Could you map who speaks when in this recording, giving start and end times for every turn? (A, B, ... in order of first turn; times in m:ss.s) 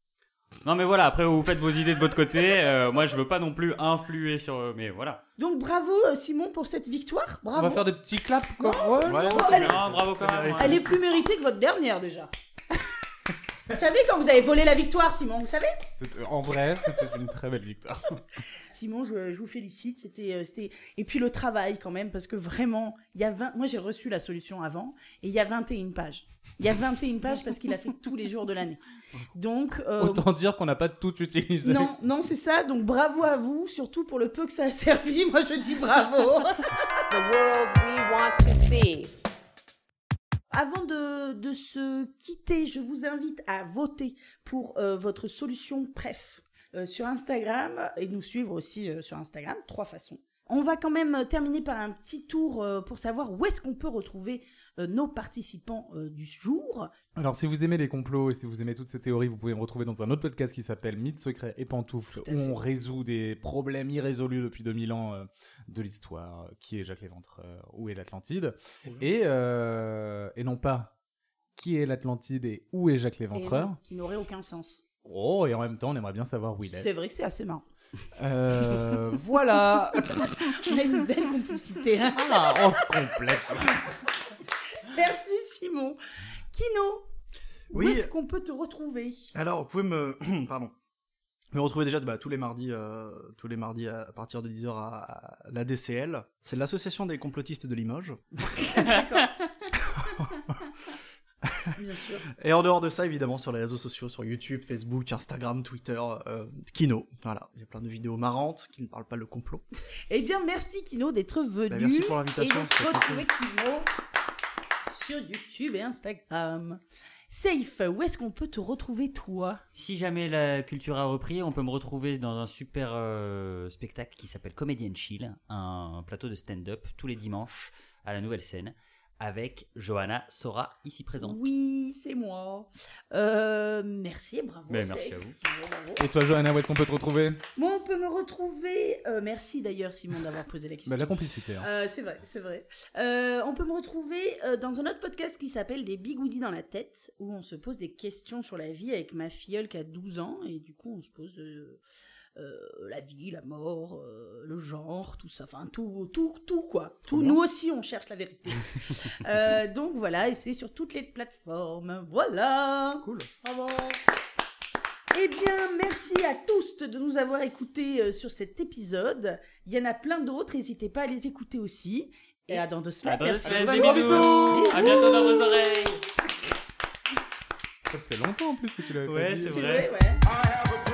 0:00.6-0:05.2 A
0:05.4-0:07.8 B
0:07.6-0:09.4 C
0:08.6-0:09.9 B
0:09.0-0:11.0 D
0:09.4-0:10.9 A
0:10.6-0:12.3 B
0:13.7-0:15.8 B
0:16.0-0:18.2 C
0:18.7-0:28.8 B
0:29.3-0:30.2 B
0:30.0-0:31.9 C
0:31.6-0:36.7 B
0:37.1-0:39.1 E
0:40.5-0:56.9 B
0:57.2-1:10.9 C
1:02.2-1:02.6 B
1:11.6-1:13.8 C
1:13.3-1:14.8 B
1:15.0-1:16.9 C
1:16.6-1:17.6 B
1:18.2-1:20.7 C
1:20.4-1:22.6 B
1:22.1-1:24.0 C
1:24.8-1:26.0 B
1:26.5-1:27.1 B
1:27.7-1:29.3 B
1:27.7-1:28.1 D
1:29.3-1:30.7 D
1:31.5-1:38.4 D
1:38.5-1:39.5 B
1:40.0-1:40.4 D
1:41.8-1:42.2 B
1:42.4-1:49.6 D
1:50.1-1:53.9 B
1:51.7-1:53.3 D
1:54.9-1:59.6 B
1:59.8-2:11.4 A
2:11.2-2:16.0 B
2:14.7-2:15.4 A
2:16.0-2:17.4 C
2:17.6-2:31.8 B
2:20.9-2:21.7 C
2:32.4-2:43.0 B
2:37.1-2:37.4 C
2:43.0-2:44.0 C
2:45.1-2:55.4 B
2:53.0-2:56.0 A
2:53.4-2:55.1 C
2:57.9-2:59.6 C
2:59.1-2:59.9 A
2:59.4-3:00.3 B